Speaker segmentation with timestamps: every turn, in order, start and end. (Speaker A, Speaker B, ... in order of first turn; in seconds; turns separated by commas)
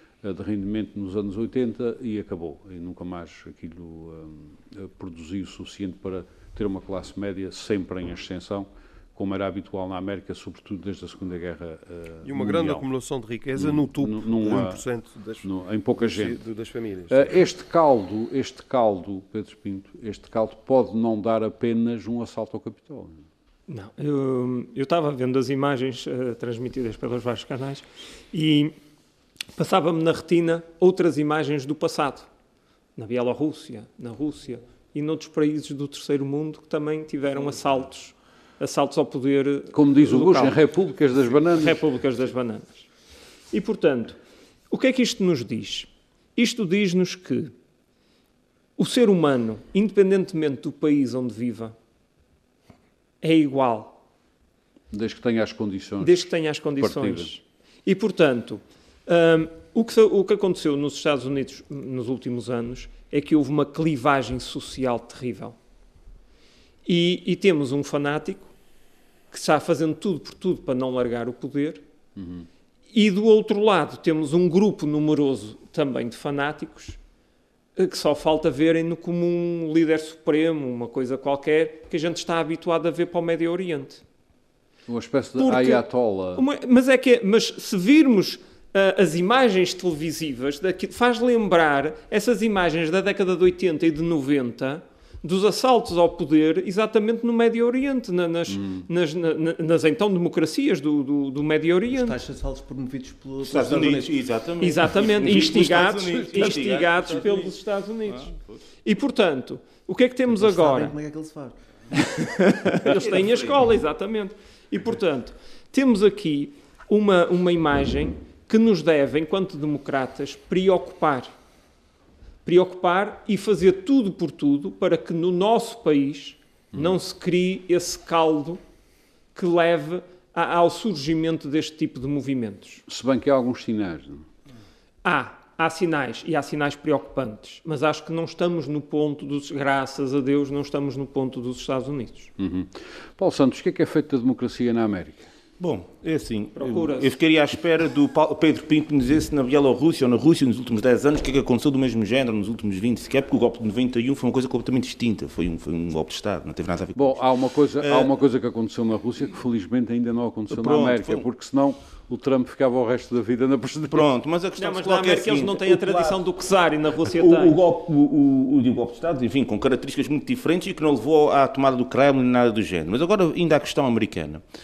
Speaker A: 0.2-12.8, Speaker B: 12.2-17.3, Speaker A: 13.6-14.8, Speaker A: 15.4-16.4, Speaker A: 17.1-23.3, Speaker C: 23.7-28.8, Speaker C: 29.6-32.3, Speaker C: 33.0-40.6, Speaker A: 39.7-41.8, Speaker C: 41.4-42.9, Speaker C: 43.5-44.2, Speaker C: 44.7-47.5, Speaker C: 48.8-51.8, Speaker C: 53.2-54.0, Speaker A: 54.9-57.3, Speaker C: 56.0-65.6, Speaker C: 66.9-68.5, Speaker C: 69.3-71.8, Speaker A: 72.2-72.5, Speaker C: 72.9-77.0, Speaker C: 77.8-84.0, Speaker A: 84.9-86.4, Speaker C: 85.4-102.2, Speaker A: 98.5-98.9, Speaker D: 101.9-104.2, Speaker E: 103.4-107.6, Speaker C: 104.6-108.3, Speaker E: 108.1-108.6, Speaker C: 108.8-110.9, Speaker D: 110.3-111.6, Speaker E: 112.4-113.6, Speaker C: 112.7-121.3, Speaker C: 122.5-128.6, Speaker A: 126.7-127.0, Speaker C: 129.3-132.8, Speaker A: 132.9-134.3, Speaker C: 135.0-142.3, Speaker A: 142.4-145.3, Speaker E: 145.6-157.2, Speaker C: 146.6-147.2, Speaker A: 156.9-164.1, Speaker E: 157.8-158.1, Speaker E: 160.5-161.2, Speaker E: 163.9-166.2, Speaker C: 164.6-167.6, Speaker E: 167.1-174.4